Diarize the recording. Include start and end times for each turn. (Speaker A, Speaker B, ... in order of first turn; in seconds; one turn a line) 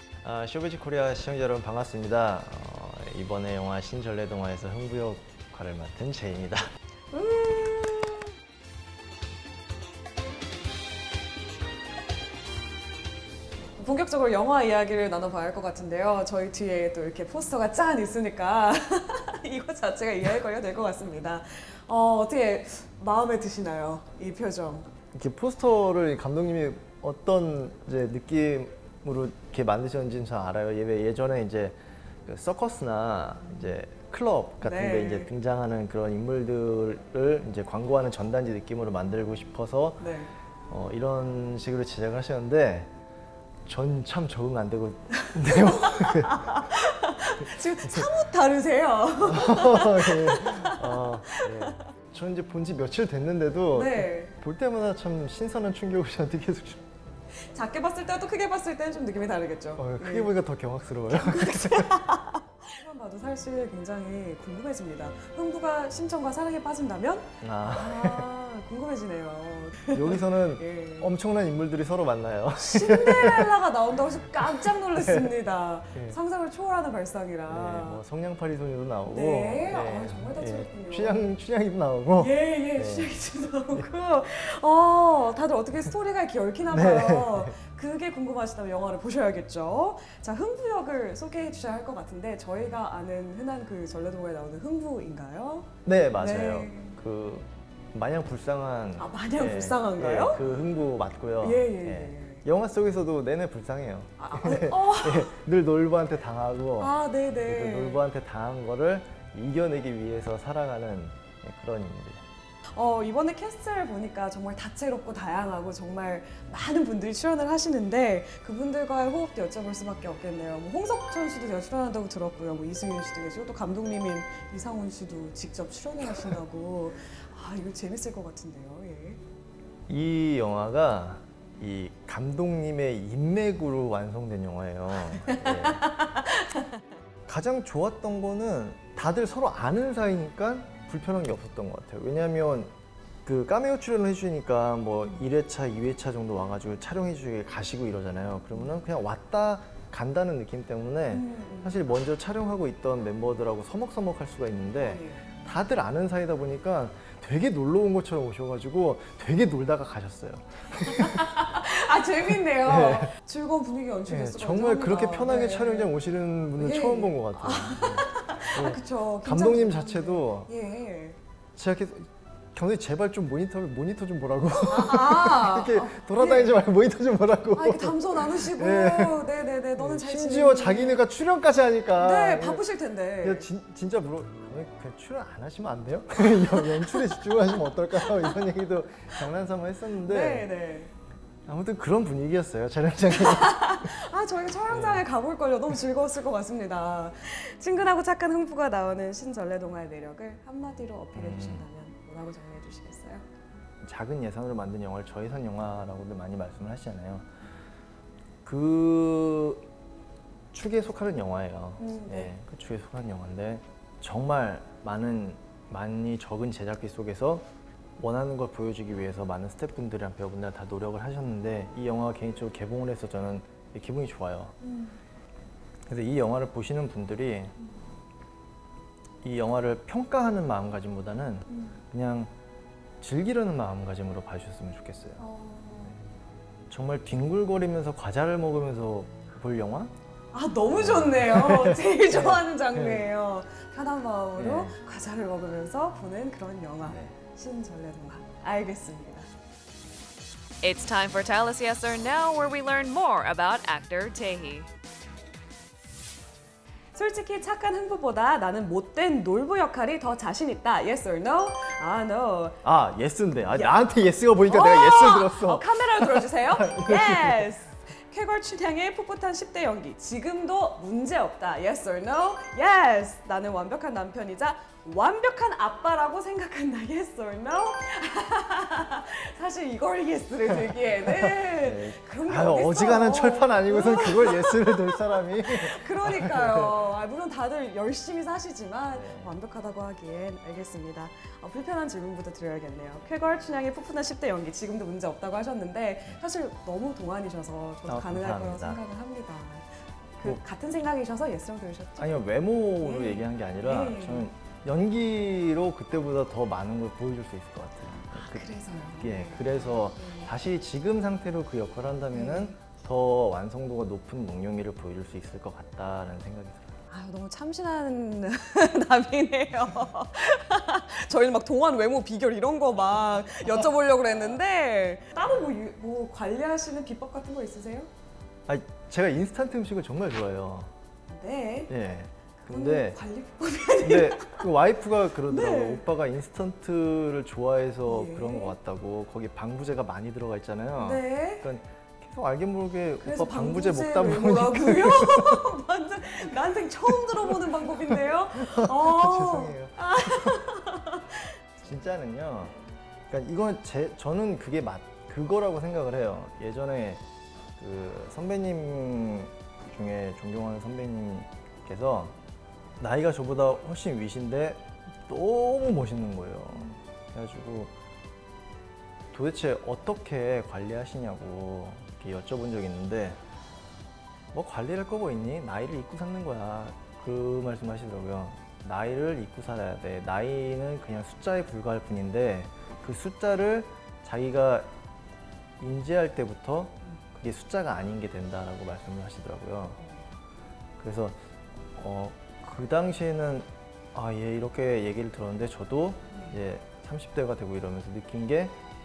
Speaker A: 0.2-6.6
Speaker B: 7.1-8.3
Speaker B: 13.7-24.9
Speaker A: 25.1-40.1
Speaker B: 34.6-35.3
Speaker B: 40.0-40.3
Speaker A: 40.7-42.9
Speaker A: 43.6-46.7
Speaker B: 45.2-51.9
Speaker A: 47.4-48.1
Speaker A: 49.2-56.8
Speaker B: 53.7-54.3
Speaker B: 57.5-60.3
Speaker A: 59.8-62.0
Speaker B: 61.1-71.1
Speaker A: 67.4-68.3
Speaker A: 69.9-73.5
Speaker B: 72.6-78.0
Speaker A: 74.4-75.3
Speaker A: 77.5-83.1
Speaker B: 79.0-81.2
Speaker B: 82.2-97.0
Speaker A: 86.7-87.6
Speaker A: 95.8-112.2
Speaker B: 99.0-100.4
Speaker B: 101.4-102.4
Speaker B: 104.2-105.3
Speaker B: 106.8-108.0
Speaker B: 112.7-129.2
Speaker A: 129.9-135.9
Speaker B: 135.1-136.8
Speaker A: 137.3-142.7
Speaker A: 143.2-161.4
Speaker B: 151.1-151.8
Speaker B: 154.8-155.2
Speaker B: 160.8-165.9
Speaker A: 162.4-163.1
Speaker A: 164.1-170.5
Speaker B: 166.6-171.2
Speaker A: 171.6-179.2
Speaker B: 174.7-176.5
Speaker B: 177.5-181.0
Speaker A: 179.8-182.6
Speaker B: 181.9-183.5
Speaker A: 183.2-190.5
Speaker B: 186.4-187.3
Speaker B: 187.9-188.4
Speaker B: 190.0-190.9
Speaker A: 191.4-193.9
Speaker B: 193.1-203.2
Speaker A: 194.7-195.0
Speaker A: 201.1-201.7
Speaker A: 203.8-207.3
Speaker A: 208.4-209.7
Speaker A: 210.5-217.4
Speaker B: 211.8-212.3
Speaker A: 218.0-224.5
Speaker B: 224.6-225.0
Speaker A: 225.9-227.5
Speaker A: 229.2-232.3
Speaker B: 231.5-231.7
Speaker A: 233.0-235.2
Speaker B: 235.2-236.0
Speaker A: 236.7-239.9
Speaker B: 240.3-249.3
Speaker A: 240.7-243.1
Speaker A: 244.4-244.8
Speaker A: 246.8-247.2
Speaker C: 250.6-254.7
Speaker B: 256.9-262.6
Speaker A: 262.6-267.5
Speaker B: 263.4-263.8
Speaker B: 264.4-302.2
Speaker A: 281.1-286.8
Speaker A: 288.9-289.3
Speaker A: 297.9-298.8
Speaker A: 302.0-316.7
Speaker B: 302.8-304.3
Speaker B: 308.1-310.3
Speaker B: 312.1-312.6
Speaker B: 316.9-327.9
Speaker A: 328.5-330.7
Speaker B: 331.1-331.7
Speaker A: 331.7-333.0
Speaker B: 332.4-334.5
Speaker A: 333.8-345.4
Speaker B: 335.3-335.8
Speaker B: 337.9-338.5
Speaker B: 340.8-341.4
Speaker B: 343.0-351.4
Speaker A: 347.9-350.4
Speaker A: 351.6-352.5
Speaker A: 353.1-357.0
Speaker A: 357.6-362.1
Speaker A: 362.8-367.7
Speaker A: 369.1-373.2
Speaker A: 374.3-384.7
Speaker A: 385.6-389.8
Speaker A: 390.8-391.1
Speaker A: 391.7-398.6